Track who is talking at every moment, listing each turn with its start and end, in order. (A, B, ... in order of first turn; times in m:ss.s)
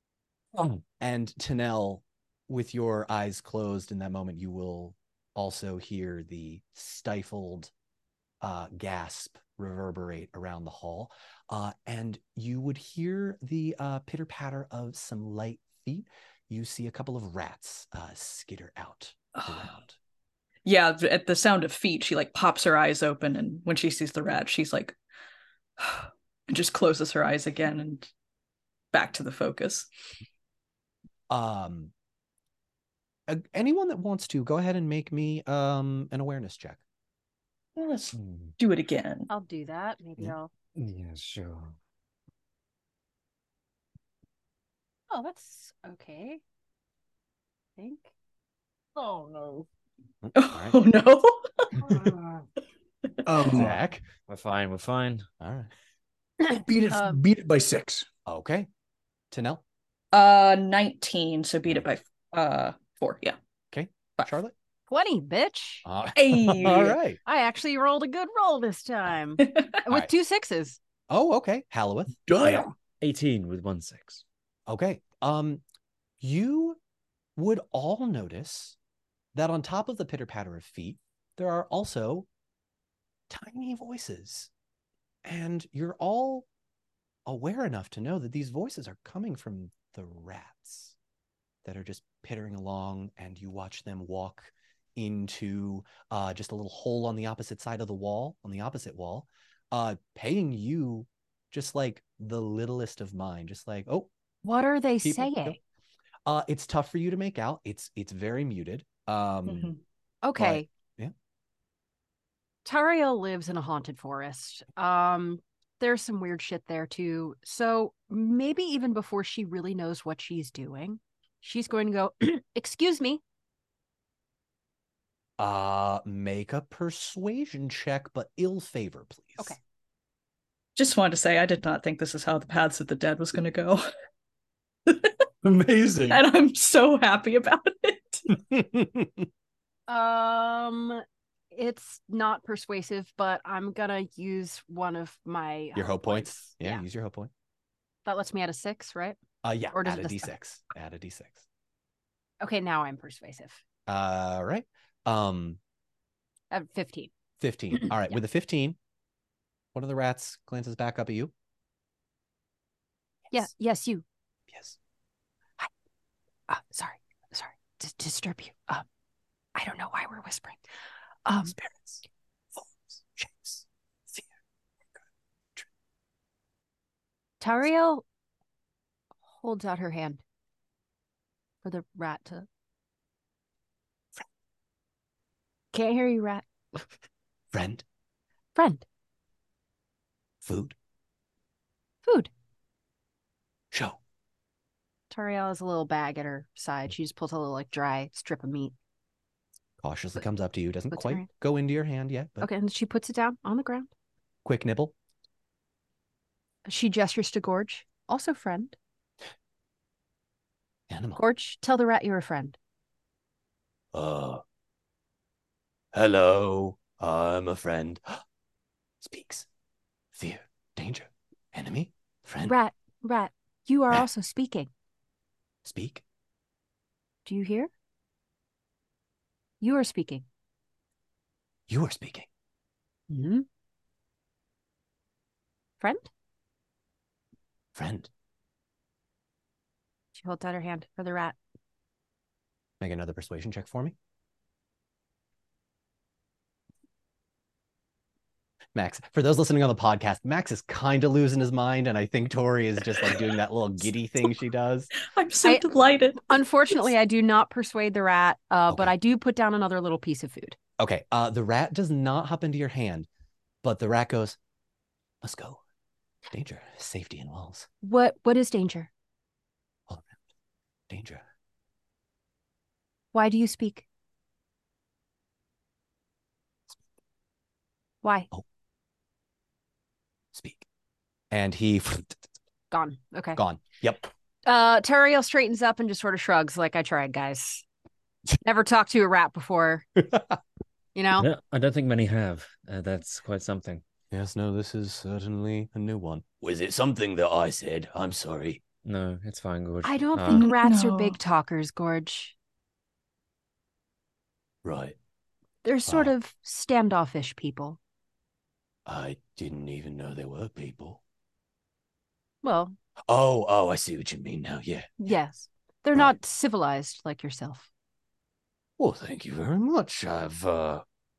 0:00.5-0:00.8 A
0:01.0-0:07.7 B
0:08.4-0:20.0 B
0:19.3-0:19.7 C
0:20.6-0:25.0 C
0:25.8-0:28.1 C
0:28.9-0:29.9 C
0:31.3-0:31.9 B
0:33.3-0:36.8 B
0:37.8-0:39.3 C
0:38.1-0:38.5 A
0:39.3-0:40.5 D
0:40.2-0:41.8 A
0:45.1-0:46.4 D
0:47.8-0:48.1 D
0:49.0-0:49.7 D
0:50.2-0:50.8 B
0:50.3-0:51.8 C
0:51.8-0:52.1 D
0:53.2-0:53.7 E
0:53.5-0:54.0 B
0:54.3-0:55.3 A
0:55.4-0:55.7 B
0:56.4-0:57.2 D
0:56.6-0:58.1 E
0:58.2-0:58.7 B
0:59.3-0:59.6 B
1:00.1-1:03.4 C
1:03.7-1:04.5 B
1:04.9-1:05.8 D
1:05.8-1:07.2 B
1:06.1-1:07.0 C
1:07.2-1:10.8 D
1:09.4-1:09.8 C
1:11.1-1:12.7 B
1:12.3-1:12.7 E
1:13.0-1:14.2 A
1:14.7-1:15.6 B
1:16.2-1:16.8 B
1:17.4-1:18.8 B
1:19.3-1:22.3 B
1:23.3-1:24.5 B
1:25.2-1:26.4 B
1:27.2-1:30.9 B
1:31.6-1:44.1 B
1:44.4-1:45.6 D
1:45.0-1:45.6 B
1:46.2-1:49.7 B
1:49.5-1:49.8 C
1:50.2-1:50.7 D
1:50.4-1:51.1 B
1:52.6-2:03.2 D
2:05.4-2:09.5 B
2:10.8-2:13.9 C
2:14.9-2:15.1 C
2:15.4-2:16.2 E
2:16.1-2:18.4 C
2:18.5-2:19.2 B
2:19.9-2:26.8 D
2:25.7-2:27.3 B
2:28.0-2:29.2 D
2:29.4-2:31.4 B
2:29.7-2:30.3 D
2:32.4-2:33.6 D
2:33.9-2:35.6 B
2:36.5-2:37.1 D
2:37.4-2:38.8 B
2:39.7-2:41.3 B
2:43.3-2:44.0 D
2:46.5-2:48.8 D
2:49.5-2:50.6 D
2:51.2-2:51.5 D
2:51.5-2:52.0 B
2:52.9-2:54.2 B
2:57.4-2:58.0 D
2:59.3-3:00.2 D
3:01.6-3:02.4 D
3:05.7-3:06.9 D
3:07.5-3:07.8 B
3:08.5-3:08.8 D
3:10.4-3:10.7 B
3:12.0-3:12.3 D
3:13.7-3:14.0 B
3:15.1-3:18.7 D
3:19.8-3:22.5 B
3:20.9-3:21.2 D
3:22.4-3:23.9 D
3:24.4-3:24.9 B
3:26.6-3:28.8 D
3:30.9-3:31.2 B
3:31.2-3:32.6 D
3:33.9-3:34.4 B
3:35.9-3:38.2 B
3:39.0-3:39.5 B
3:40.1-3:42.6 B
3:42.4-3:44.7 D
3:45.6-3:46.0 B
3:47.2-3:47.7 D
3:49.6-3:50.2 D
3:51.7-3:52.3 B
3:53.1-3:53.4 D
3:55.8-3:56.1 D
3:57.7-3:58.1 B
4:00.1-4:01.4 D
4:02.8-4:03.9 B
4:08.7-4:14.9 B
4:15.0-4:16.4 C
4:16.2-4:20.6 D
4:20.8-4:23.1 B
4:23.6-4:24.4 B
4:25.2-4:25.6 B
4:26.3-4:27.7 B
4:27.8-4:28.9 D
4:29.9-4:30.1 B
4:30.9-4:31.2 B
4:33.1-4:33.8 D
4:38.0-4:38.3 D
4:40.3-4:40.6 B
4:41.3-4:42.2 B
4:42.7-4:43.4 D
4:43.4-4:44.1 B
4:44.4-4:47.6 D
4:48.4-4:49.8 D
4:50.0-4:50.4 B
4:50.9-4:51.3 D
4:51.2-4:53.8 A
4:54.1-4:58.6 B
4:58.8-5:00.5 A
4:59.8-5:02.3 D
5:00.3-5:01.2 C
5:04.6-5:05.0 B
5:05.6-5:07.8 D
5:05.8-5:06.1 B
5:08.8-5:11.0 B
5:12.4-5:12.8 D
5:13.1-5:15.0 B
5:15.0-5:17.7 D
5:18.8-5:20.8 B